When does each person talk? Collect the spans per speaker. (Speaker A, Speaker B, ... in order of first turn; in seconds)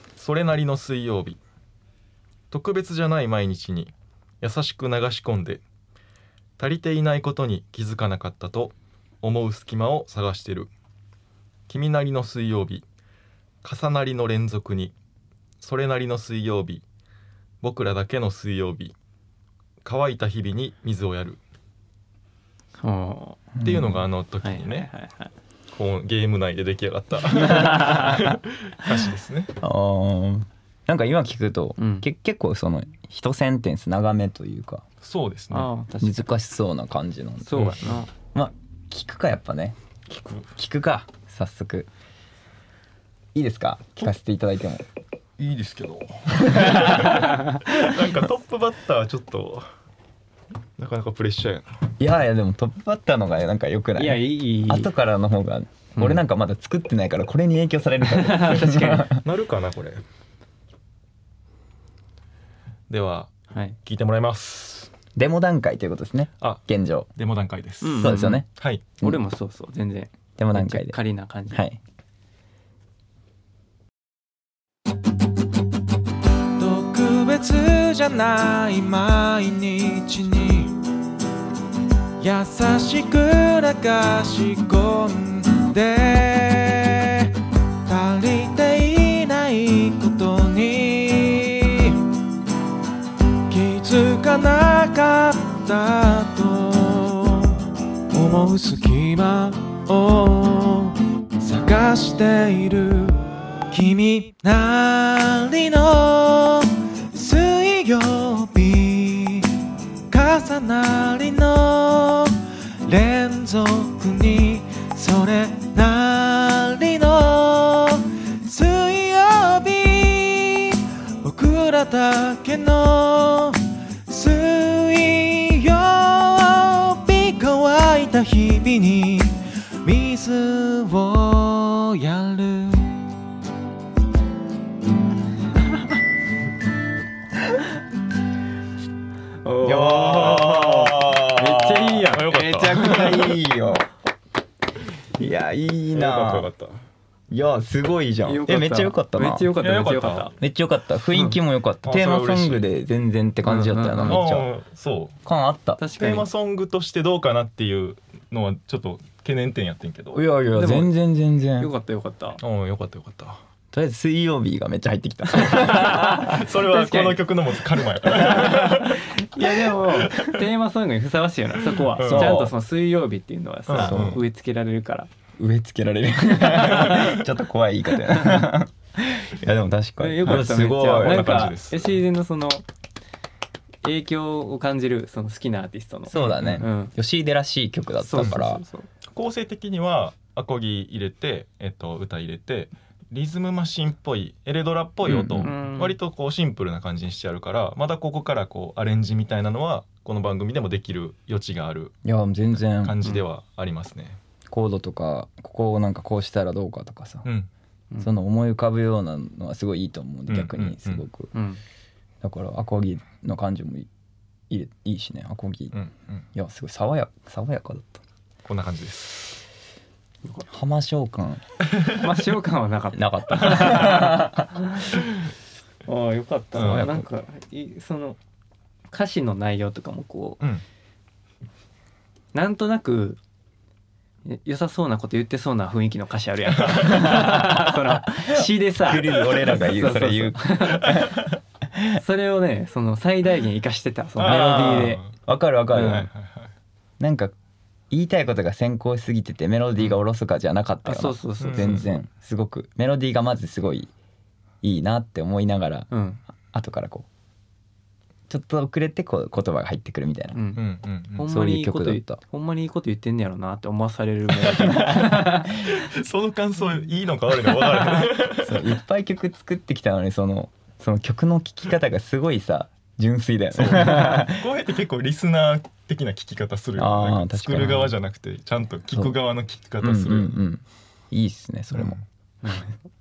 Speaker A: 0.2-1.4, 2.5-5.6, 6.6-10.7, 11.7-12.8, 13.6-14.9, 15.6-16.8, 17.6-18.9, 19.8-21.4, 23.6-24.9, 25.7-29.5, 35.0-35.7, 37.5-37.8, 40.1-40.5, 45.4-49.7, 50.8-51.7, 59.1-60.0, 62.9-63.3, 63.8-64.9, 67.2-68.8, 139.7-143.3, 145.9-146.8, 149.6-150.3, 151.8-152.7, 154.0-155.2, 156.0-160.2, 162.4-163.4, 165.4-170.4, 171.9-172.4, 173.7-174.2, 176.7-177.2, 180.2-182.0, 186.1-186.6, 189.1-201.9, 202.8-204.2, 210.3-211.0, 215.7-216.2, 218.4-219.4, 226.5-227.0, 244.2-245.1, 245.7-246.5, 251.4-251.8, 260.6-261.3, 264.6-268.7, 273.5-280.4, 281.7-282.0
Speaker B: 22.8-23.5, 24.4-25.3, 31.8-32.0, 35.5-36.2, 37.4-38.1, 47.1-47.5, 54.0-54.9, 56.0-56.2, 58.1-59.1, 63.5-63.8, 67.8-68.4, 69.0-71.6, 139.4-143.1, 148.2-150.3, 153.4-154.2, 155.8-156.3, 160.5-160.9, 161.6-162.4, 165.4-167.2, 168.0-175.1, 176.6-177.2, 178.1-178.5, 180.0-182.6, 183.8-186.9, 188.0-188.9, 195.4-195.9, 211.3-211.6, 221.9-225.1, 225.8-228.2, 228.9-230.4, 232.3-233.2, 234.2-241.1, 241.9-245.0, 245.7-246.1, 250.8-251.9, 255.9-256.2, 260.3-260.6, 261.2-265.6, 282.4-282.8
Speaker C: 23.6-24.0, 27.3-28.4, 29.6-34.8, 36.0-39.8, 40.5-41.9, 43.3-44.9, 46.4-47.1, 52.0-59.2, 65.2-67.1, 67.9-68.5, 70.4-71.0, 71.5-71.8, 139.6-141.2, 142.2-143.9, 145.2-146.5, 147.3-149.5, 150.4-154.5, 155.2-155.8, 160.1-161.7, 163.7-166.3, 172.0-172.5, 173.7-174.2, 175.4-181.4, 186.1-188.6, 195.1-195.5, 202.0-203.0, 204.5-207.2, 208.0-211.3, 212.2-213.9, 214.5-215.7, 216.3-218.0, 220.5-221.4, 222.9-224.5, 226.6-226.9, 237.0-242.0, 244.2-246.1, 247.0-247.3, 247.9-253.9, 254.6-255.9, 256.5-257.1, 258.3-260.4, 261.2-262.2, 268.4-274.5, 276.8-277.9, 279.8-282.0
Speaker D: 76.6-80.8, 82.2-87.3, 87.8-92.0, 93.5-109.5, 110.1-133.0